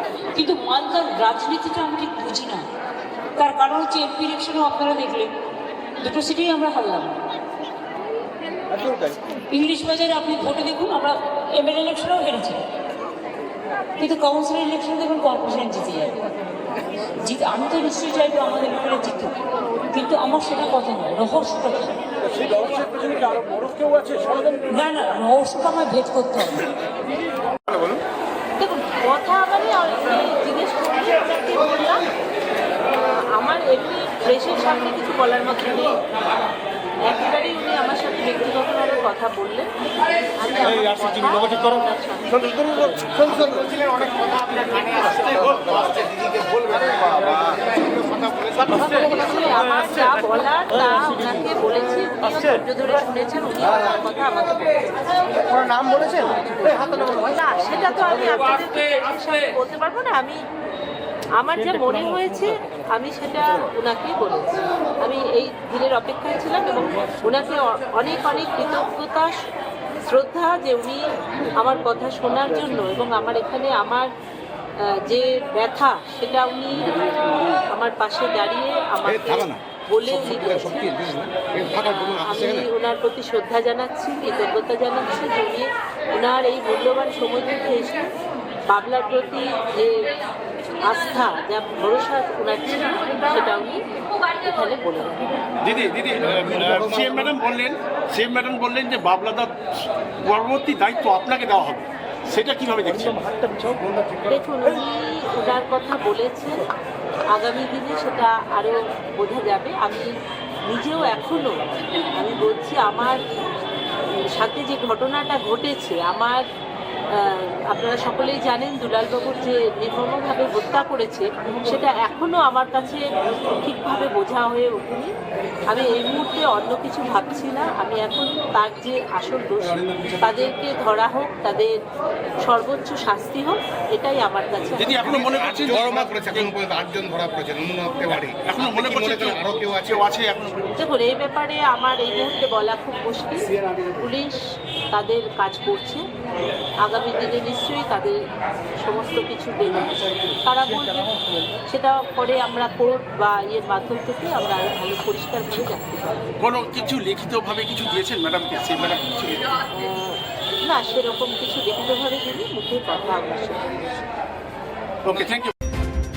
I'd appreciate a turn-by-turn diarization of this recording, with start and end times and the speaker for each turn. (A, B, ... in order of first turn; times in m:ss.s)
0:00.3-0:02.6 A
0:03.4-0:05.3 A
0:06.0-0:07.2 A
0:09.5-0:12.6 A
0:14.0-0:16.2 A
0:17.2-0:19.4 A
0:19.9-0:22.0 A
0:24.6-0:26.6 A
0:28.6-0:32.0 B
0:32.9-0:36.0 B
0:37.0-0:39.7 B
0:40.4-0:43.4 B
0:43.3-0:48.8 C
0:48.7-0:54.9 B
0:55.5-1:00.4 B
1:01.4-1:09.4 B
1:10.0-1:11.0 B
1:11.6-1:14.1 B
1:15.0-1:20.8 B
1:19.0-1:19.6 C
1:20.2-1:22.7 C
1:21.8-1:28.1 B
1:28.7-1:30.0 B
1:30.8-1:33.8 B
1:34.4-1:35.2 B
1:35.6-1:39.5 D
1:36.4-1:37.3 C
1:40.2-1:43.7 D
1:44.2-1:46.7 B
1:47.3-1:50.1 B
1:50.7-1:51.5 B
1:52.1-1:53.2 B
1:54.4-1:56.4 B
1:57.2-2:03.0 B
2:03.6-2:05.1 B
2:05.7-2:11.7 B
2:12.4-2:15.1 B
2:14.8-2:16.5 D
2:15.2-2:20.0 C
2:18.3-2:20.7 D
2:20.8-2:24.4 B
2:24.9-2:26.0 B
2:26.8-2:28.2 B
2:28.8-2:31.1 B
2:31.7-2:36.3 B
2:36.4-2:39.6 D
2:39.7-2:43.7 B
2:45.0-2:45.5 D